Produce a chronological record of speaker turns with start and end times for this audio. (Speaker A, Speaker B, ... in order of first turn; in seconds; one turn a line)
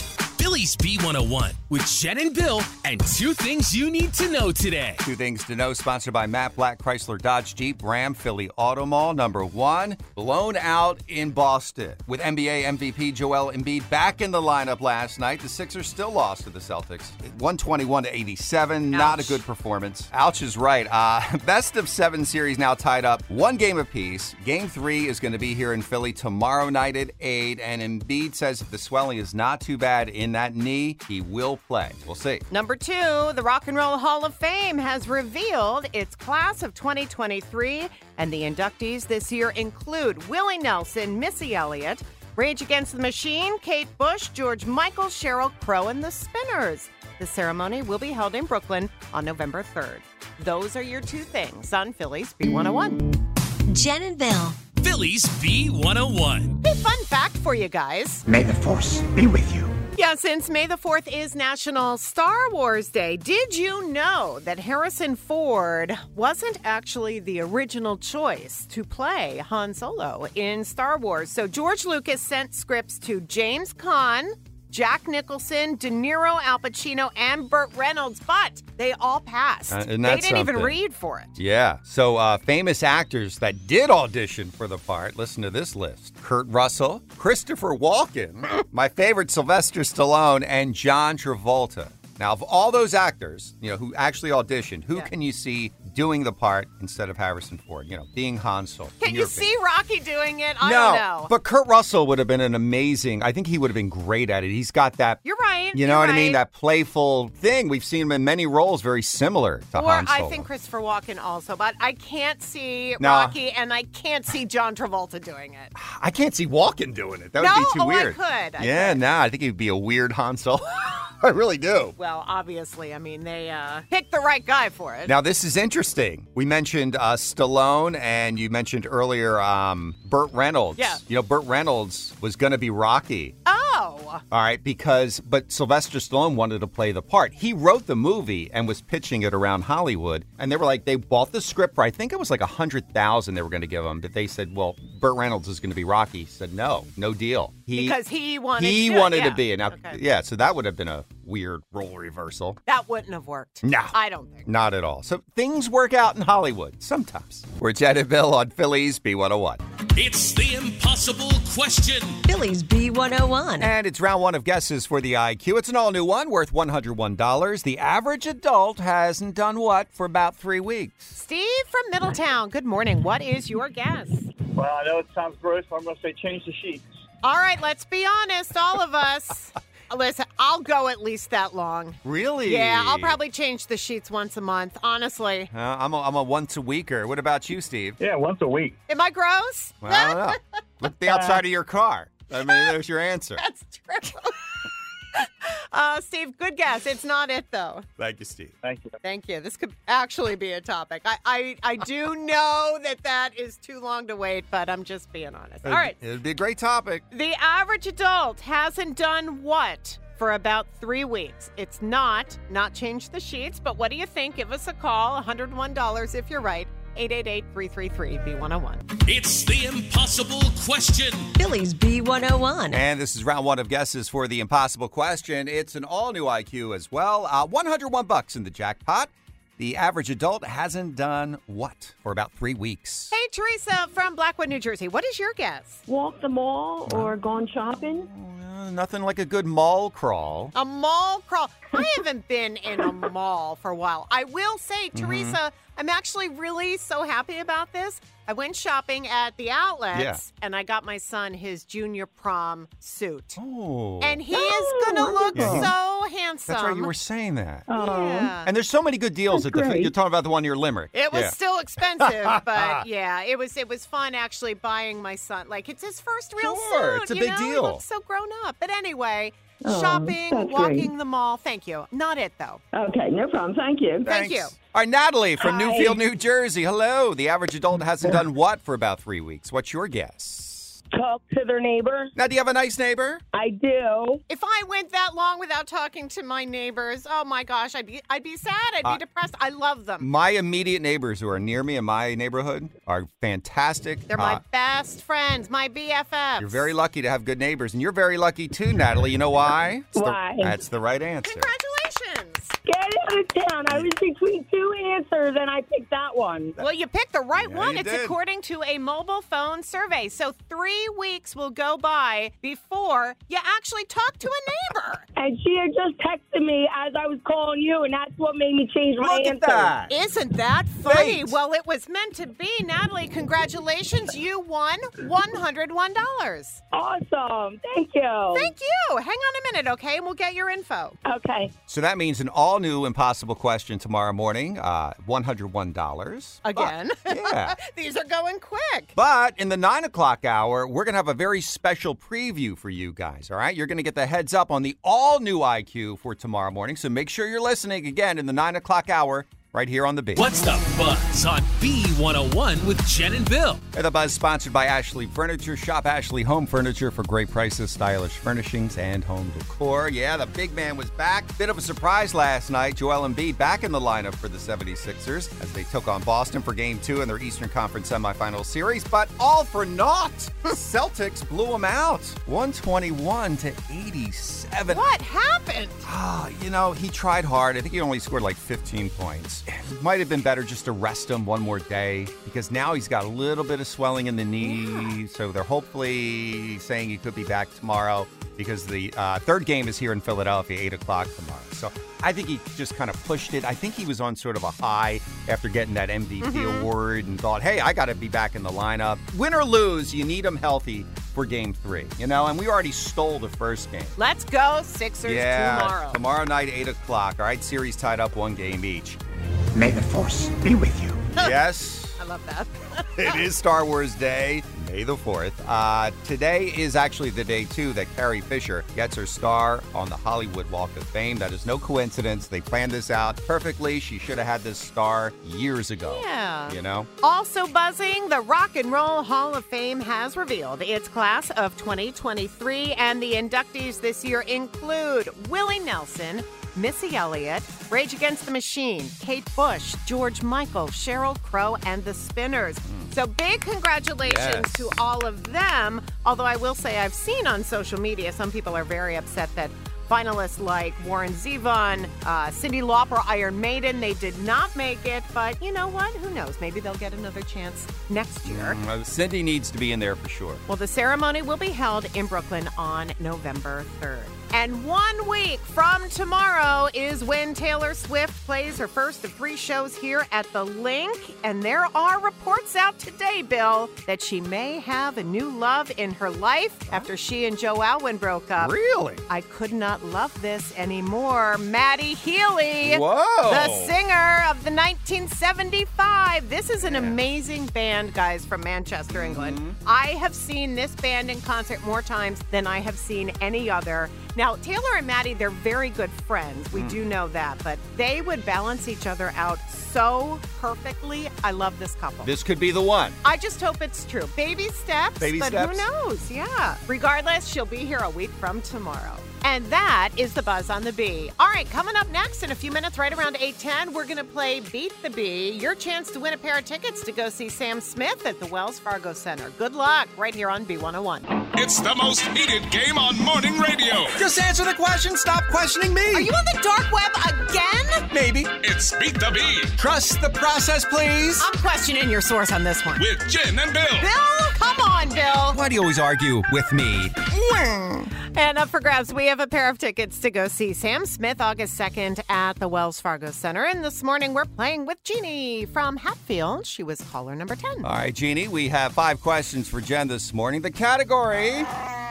Speaker A: 0.3-5.0
Speaker B: 5.0-32.5
Speaker C: 18.9-19.4
Speaker C: 32.5-53.1
Speaker D: 53.7-54.6
Speaker A: 54.8-56.6
Speaker C: 56.6-58.2
Speaker E: 58.2-59.8
Speaker C: 59.9-81.3
Speaker B: 79.7-80.8
Speaker B: 81.3-99.5
Speaker C: 99.0-101.3
Speaker B: 100.6-105.2
Speaker C: 105.2-106.4
Speaker B: 105.7-110.5
Speaker C: 109.8-115.7
Speaker B: 113.0-113.3
Speaker B: 115.8-121.9
Speaker C: 117.4-119.0
Speaker C: 122.0-125.1
Speaker B: 125.0-133.4
Speaker C: 130.8-131.0
Speaker C: 133.4-134.2
Speaker B: 134.3-148.0
Speaker C: 147.7-150.0
Speaker B: 148.6-152.6
Speaker C: 152.7-154.5
Speaker B: 153.6-153.9
Speaker B: 154.5-159.6
Speaker A: 159.9-162.2
Speaker D: 162.2-163.7
Speaker B: 163.6-171.1
Speaker C: 171.1-174.3
Speaker F: 174.6-176.8
Speaker C: 177.2-185.5
Speaker B: 182.0-183.2
Speaker B: 185.5-188.0
Speaker F: 188.0-188.8
Speaker C: 188.9-190.4
Speaker B: 189.8-193.4
Speaker F: 191.1-191.4
Speaker C: 192.4-192.7
Speaker C: 193.4-194.4
Speaker C: 195.1-197.9
Speaker B: 198.0-198.6
Speaker F: 198.6-199.0
Speaker C: 199.0-206.0
Speaker B: 205.6-207.0
Speaker C: 207.1-218.8
Speaker A: 219.0-221.3
Speaker D: 221.4-222.8
Speaker B: 222.7-233.1
Speaker C: 233.1-235.8
Speaker G: 235.9-238.1
Speaker B: 236.9-237.1
Speaker B: 238.1-240.5
Speaker C: 240.5-253.4
Speaker B: 244.9-245.4
Speaker B: 249.9-250.2
Speaker B: 253.4-254.2
Speaker C: 254.0-256.9
Speaker G: 254.3-255.7
Speaker B: 255.3-255.7
Speaker B: 256.5-257.7
Speaker G: 257.7-258.4
Speaker C: 257.7-258.5
Speaker B: 258.4-261.4
Speaker G: 259.3-259.9
Speaker C: 260.9-272.6
Speaker B: 262.0-262.8
Speaker B: 266.4-267.8
Speaker G: 269.6-270.9
Speaker G: 272.7-274.1
Speaker C: 274.0-274.5
Speaker B: 274.1-280.8
Speaker G: 275.4-276.0
Speaker G: 280.9-282.1
Speaker B: 282.1-283.2
Speaker G: 283.3-284.2
Speaker C: 284.3-290.1
Speaker B: 290.0-294.4
Speaker C: 294.1-296.7
Speaker B: 296.4-301.5
Speaker G: 299.9-300.6
Speaker C: 301.2-302.5
Speaker G: 302.6-306.6
Speaker C: 306.6-315.0
Speaker B: 307.4-308.1
Speaker G: 315.1-319.8
Speaker B: 319.0-319.9
Speaker C: 319.9-326.6
Speaker B: 320.8-321.4
Speaker G: 326.7-328.5
Speaker C: 328.3-331.0
Speaker G: 331.0-331.5
Speaker B: 331.7-337.6
Speaker C: 336.4-338.9
Speaker B: 338.9-350.3
Speaker A: 350.1-353.6
Speaker B: 353.7-374.9
Speaker C: 374.7-375.9
Speaker B: 375.8-404.0
Speaker C: 384.4-384.9
Speaker C: 396.2-396.7
Speaker C: 404.0-406.0
Speaker B: 405.0-409.0
Speaker E: 409.5-411.0
Speaker B: 411.1-412.0
Speaker C: 412.0-413.2
Speaker B: 413.0-426.9
Speaker C: 425.8-458.6
Speaker B: 442.6-442.9
Speaker B: 444.0-444.7
Speaker B: 458.2-460.4
Speaker C: 460.5-478.5
Speaker B: 478.4-479.1
Speaker C: 479.1-502.1
Speaker B: 482.6-483.7
Speaker B: 486.6-487.0
Speaker B: 488.9-489.6
Speaker B: 496.5-496.8
Speaker B: 502.0-503.0
Speaker C: 503.0-521.1
Speaker B: 505.0-505.7
Speaker H: 521.4-524.0
Speaker B: 523.9-526.1
Speaker C: 525.9-527.9
Speaker B: 527.9-528.3
Speaker H: 528.4-529.5
Speaker B: 529.6-531.3
Speaker C: 531.2-532.9
Speaker H: 532.8-533.9
Speaker C: 533.8-535.4
Speaker B: 535.3-536.9
Speaker C: 537.1-547.7
Speaker B: 547.6-551.5